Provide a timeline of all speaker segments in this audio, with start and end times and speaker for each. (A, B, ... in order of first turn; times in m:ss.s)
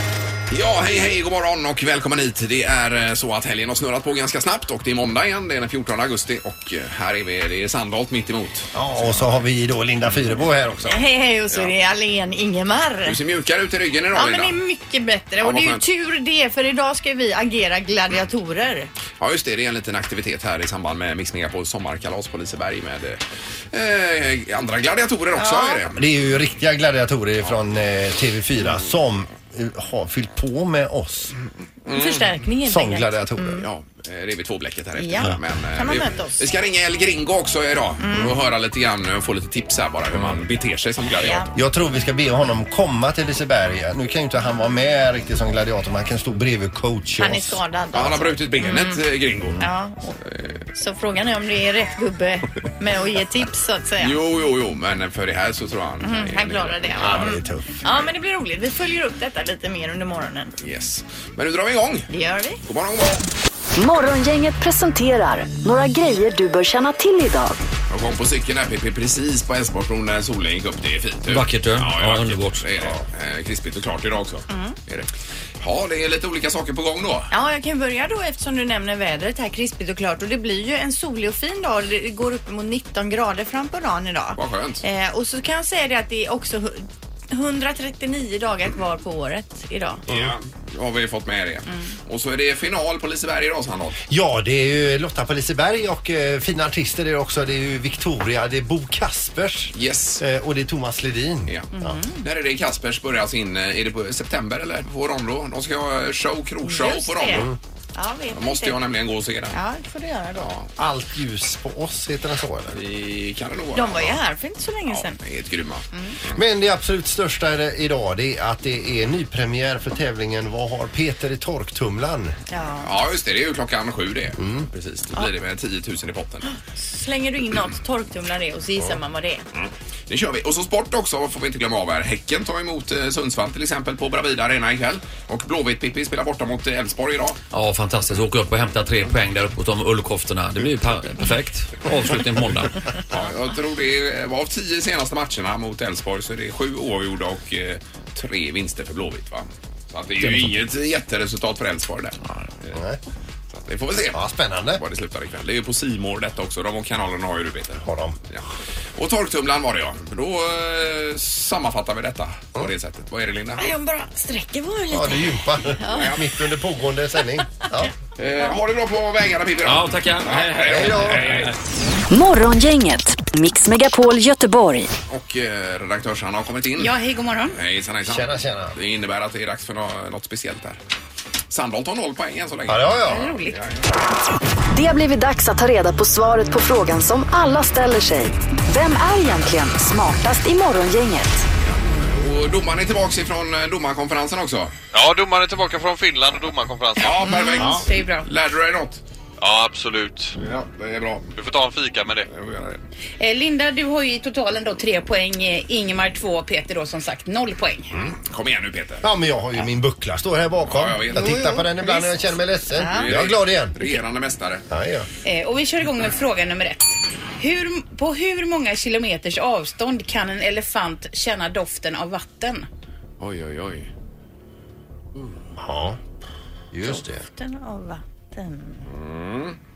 0:00.5-0:09.3 A
0:08.7-0:11.0 B
0:10.9-0:13.2 C
0:13.0-0:14.6 A
0:14.1-0:18.9 C
0:15.4-0:15.8 A
0:19.2-0:23.2 A
0:23.7-0:26.0 A
0:25.4-0:25.8 C
0:25.9-0:31.3 B
0:31.9-0:32.3 A
0:31.9-0:33.6 C
0:32.6-0:33.7 B
0:33.6-0:41.5 A
0:35.0-0:36.4 C
0:38.0-0:38.4 C
0:41.1-0:41.5 C
0:41.5-0:47.6 B
0:47.2-0:49.0 C
0:47.9-0:49.7 A
0:49.6-0:50.2 C
0:50.3-0:50.6 A
0:50.8-0:54.2 C
0:54.0-0:57.4 A
0:56.0-1:00.5 C
0:57.0-0:57.8 B
1:00.6-1:02.1 A
1:02.1-1:02.6 C
1:02.6-1:03.2 A
1:03.8-1:07.6 D
1:07.9-1:17.3 A
1:11.3-1:12.6 E
1:14.5-1:14.8 C
1:17.3-1:30.0 C
1:24.4-1:24.8 A
1:30.1-1:34.0 A
1:30.1-1:30.4 B
1:34.1-1:42.0 B
1:39.8-1:40.2 A
1:41.7-1:42.2 C
1:42.2-1:47.5 A
1:46.6-1:48.8 C
1:48.3-1:49.6 A
1:49.5-1:50.5 C
1:50.4-1:50.7 A
1:50.8-1:52.8 B
1:52.7-1:54.2 A
1:53.8-1:55.2 C
1:54.9-1:56.4 A
1:56.3-2:02.4 B
2:02.5-2:02.9 C
2:02.8-2:06.5 A
2:04.4-2:04.7 B
2:06.4-2:09.4 C
2:09.5-2:17.4 A
2:17.5-2:22.7 E
2:23.1-2:32.8 A
2:32.7-2:33.0 B
2:33.5-2:34.2 A
2:34.1-2:34.8 B
2:34.8-2:38.5 A
2:37.8-2:38.2 B
2:39.0-2:43.7 A
2:43.6-2:46.2 C
2:44.9-2:47.9 B
2:45.9-2:46.2 A
2:48.2-2:51.5 A
2:49.6-2:51.6 E
2:50.7-2:51.3 B
2:52.1-2:54.9 D
2:55.1-2:57.0 A
2:56.8-2:57.6 F
2:57.5-3:00.8 A
2:58.0-2:58.8 B
3:01.5-3:03.8 A
3:02.7-3:03.3 B
3:03.1-3:03.6 F
3:04.7-3:11.5 D
3:11.6-3:14.7 A
3:14.9-3:17.8 G
3:17.0-3:19.0 A
3:17.2-3:18.3 C
3:19.4-3:20.4 G
3:20.4-3:21.3 A
3:21.3-3:22.3 G
3:22.3-3:22.8 A
3:23.2-3:27.9 F
3:28.2-3:29.1 A
3:29.0-3:33.8 B
3:30.6-3:31.4 A
3:31.2-3:31.6 C
3:32.8-3:33.1 C
3:32.8-3:34.7 A
3:34.7-3:35.1 B
3:35.2-3:42.7 F
3:43.2-3:43.9 A
3:45.6-3:46.0 B
3:46.7-3:47.2 B
3:46.8-3:48.9 C
3:48.9-3:49.6 A